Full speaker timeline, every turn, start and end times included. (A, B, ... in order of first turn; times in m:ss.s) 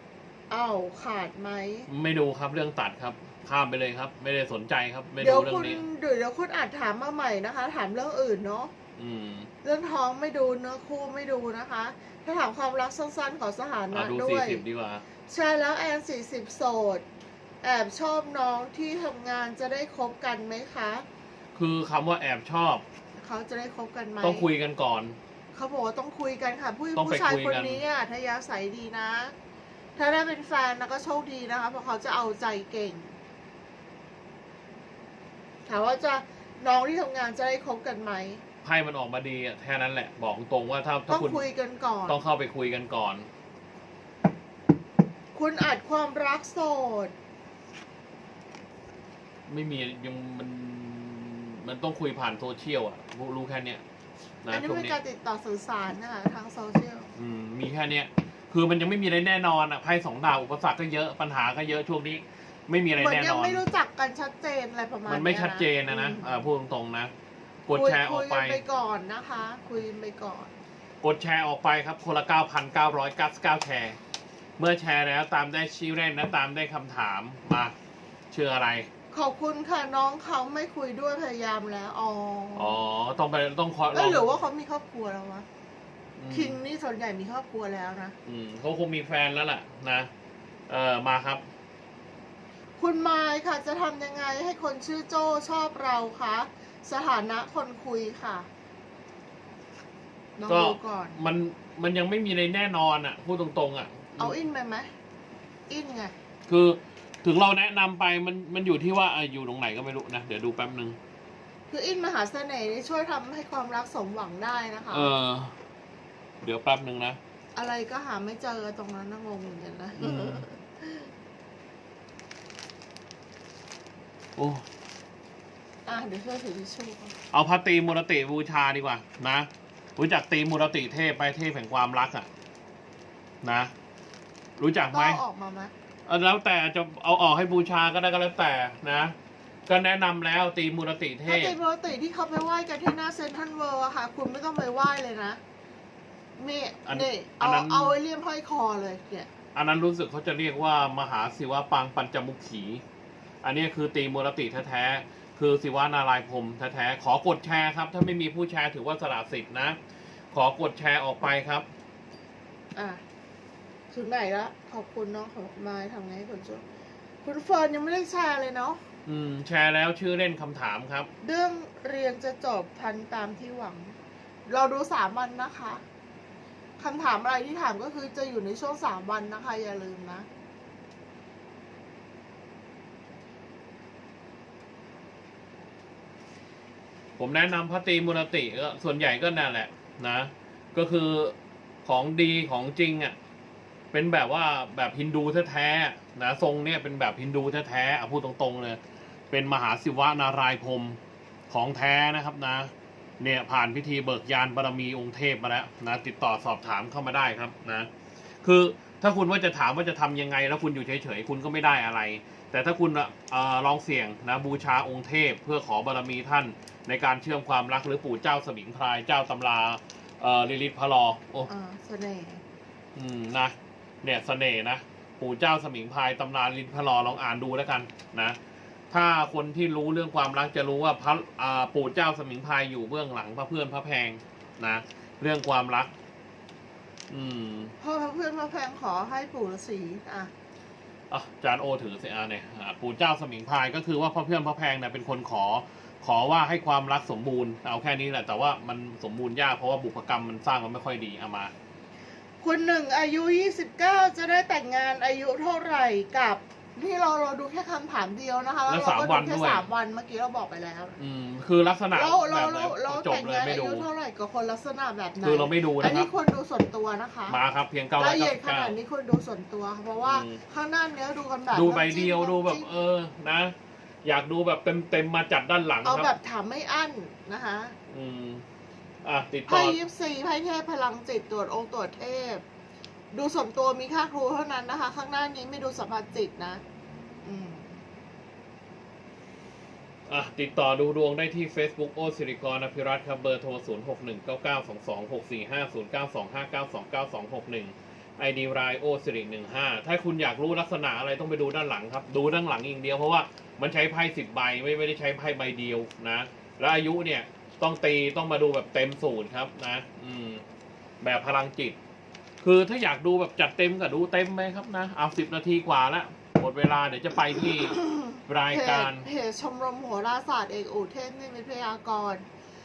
0:00.5-0:01.9 A
0:01.9-0:05.8 B
0:05.2-0:08.7 A
0:09.0-0:09.5 B
0:09.6-0:14.6 A
0:13.9-0:15.0 B
0:15.3-0:17.0 A
0:17.6-0:21.1 A
0:21.6-0:22.8 B
0:23.2-0:24.5 A
0:24.2-0:25.2 B
0:25.5-0:29.3 A
0:27.0-0:27.8 B
0:30.0-0:33.2 A
0:35.7-0:38.4 A
0:38.6-0:41.4 B
0:41.1-0:42.2 A
0:42.1-0:43.3 B
0:45.3-0:47.1 A
0:49.5-0:53.8 B
0:54.4-0:55.0 B
0:54.5-0:57.1 A
0:57.2-1:03.6 B
1:03.0-1:06.4 A
1:05.1-1:07.1 B
1:07.7-1:08.6 B
1:07.7-1:10.5 A
1:11.0-1:14.0 B
1:14.6-1:17.7 B
1:18.3-1:18.9 B
1:19.1-1:22.8 A
1:22.6-1:24.4 B
1:23.9-1:25.4 A
1:26.2-1:26.6 B
1:26.3-1:28.2 A
1:28.2-1:30.1 B
1:30.7-1:31.4 B
1:32.8-1:38.5 A
1:40.4-1:41.2 A
1:40.5-1:44.4 B
1:44.2-1:44.9 A
1:45.7-1:46.1 A
1:46.5-1:51.0 B
1:51.7-1:55.1 A
1:54.9-1:55.5 B
1:56.4-1:57.2 B
1:57.6-2:01.1 A
2:00.0-2:00.5 B
2:04.4-2:04.6 B
2:05.8-2:07.2 A
2:07.3-2:12.3 B
2:13.4-2:13.7 B
2:14.6-2:15.2 B
2:14.9-2:15.7 A
2:16.1-2:19.2 B
2:19.7-2:21.6 B
2:21.2-2:25.4 A
2:26.4-2:29.3 A
2:26.9-2:28.0 B
2:29.6-2:32.8 B
2:33.4-2:39.8 B
2:40.3-2:41.6 B
2:42.8-2:43.0 A
2:43.9-2:46.6 A
2:47.2-2:48.8 A
2:49.1-2:51.1 B
2:51.2-2:54.0 A
2:54.5-2:55.8 A
2:56.8-3:00.3 A
3:07.2-3:13.2 B
3:13.9-3:18.8 B
3:19.3-3:21.0 B
3:21.5-3:27.9 B
3:28.4-3:41.5 B
3:41.5-3:42.4 A
3:43.0-3:48.4 B
3:48.9-3:55.9 B
3:57.1-3:57.7 B
3:57.8-4:00.3 A
4:01.1-4:11.5 B
4:12.4-4:21.0 A
4:18.7-4:19.6 B
4:21.0-4:23.9 B
4:21.9-4:27.4 A
4:25.2-4:26.1 B
4:27.3-4:28.8 B
4:28.0-4:32.7 A
4:30.0-4:30.4 B
4:31.5-4:36.1 B
4:35.8-4:37.8 A
4:37.9-4:38.4 B
4:39.0-4:39.8 B
4:39.5-4:42.4 A
4:43.1-4:46.6 A
4:47.2-4:47.8 A
4:50.1-5:10.4 B
5:11.0-5:11.8 B
5:12.4-5:19.1 B
5:17.6-5:22.2 A